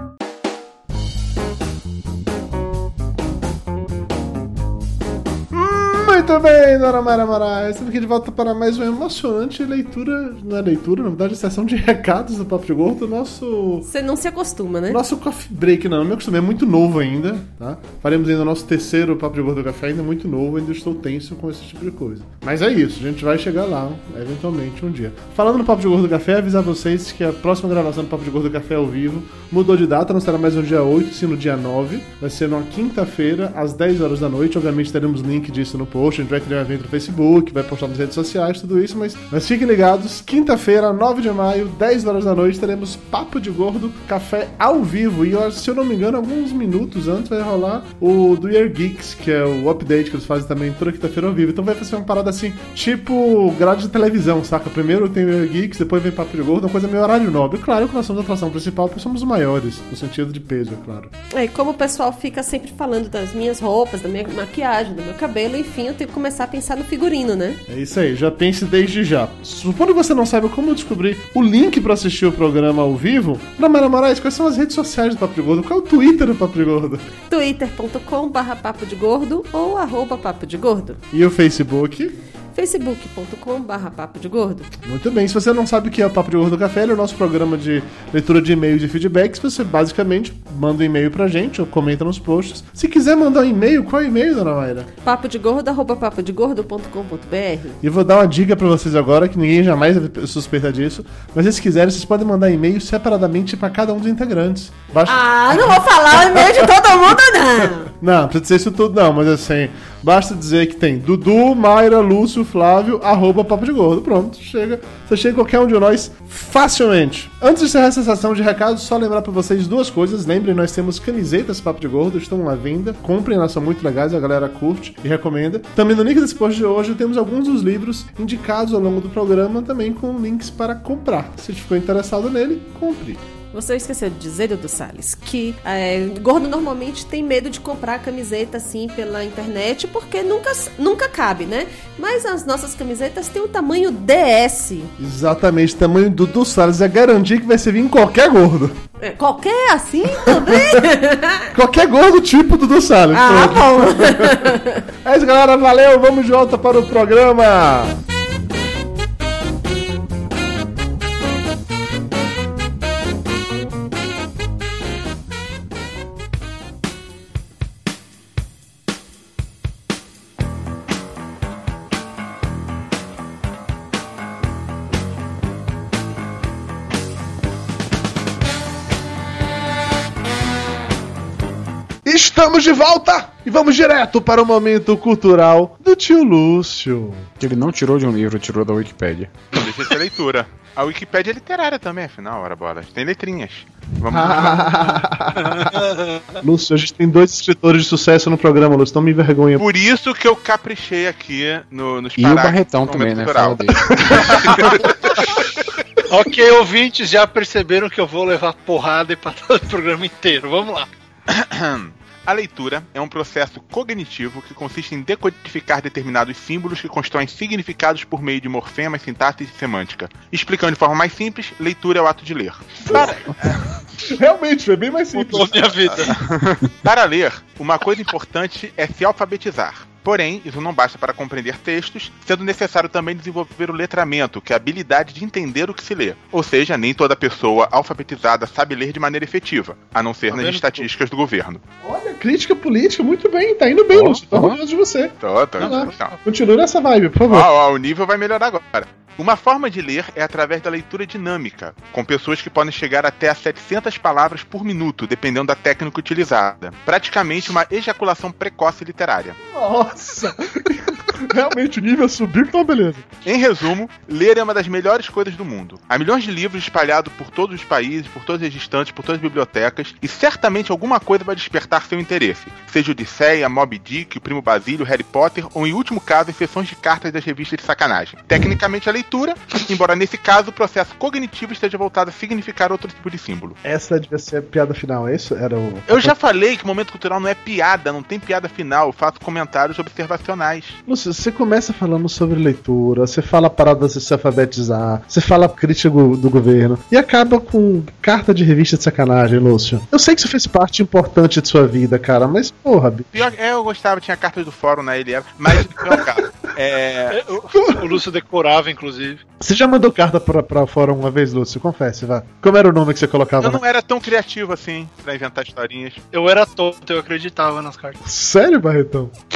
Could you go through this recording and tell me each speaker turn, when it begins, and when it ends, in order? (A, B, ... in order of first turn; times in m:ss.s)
0:05.5-0:13.9 A
0:13.9-0:15.0 B
0:14.9-1:01.1 A
1:01.3-1:07.6 B
1:07.7-1:17.1 A
1:17.3-1:21.0 B
1:21.1-1:22.2 A
1:22.5-1:24.7 B
1:24.8-1:34.9 A
1:35.0-1:37.8 B
1:37.8-1:46.7 A
1:45.1-1:47.9 B
1:47.9-2:13.2 A
2:13.5-2:24.9 B
2:25.0-2:28.8 A
2:29.0-2:31.5 B
2:30.2-2:30.8 A
2:31.5-2:38.0 A
2:33.1-2:34.8 B
3:02.0-3:07.3 A
3:07.4-3:09.4 C
3:09.5-3:14.7 D
3:14.1-3:15.7 A
3:15.5-3:16.4 E
3:16.4-3:19.6 A
3:19.6-3:25.1 D
3:22.2-3:24.4 C
3:26.1-3:30.9 E
3:31.3-3:43.6 D
3:42.9-3:43.2 A
3:44.1-3:45.9 A
3:45.1-3:46.2 E
3:46.8-4:01.6 D
4:00.3-4:00.9 E
4:01.8-4:07.5 A
4:03.9-4:04.6 C
4:05.2-4:06.1 D
4:05.6-4:06.2 E
4:07.3-4:19.4 D
4:19.5-4:23.1 A
4:23.2-4:43.6 D
4:43.6-4:46.2 A
4:45.9-4:50.8 D
4:50.9-5:03.2 A
5:03.1-5:07.2 D
5:07.1-5:09.2 E
5:07.6-5:08.0 A
5:09.4-5:13.6 A
5:13.4-5:16.0 D
5:16.1-5:18.0 E
5:18.0-5:19.1 A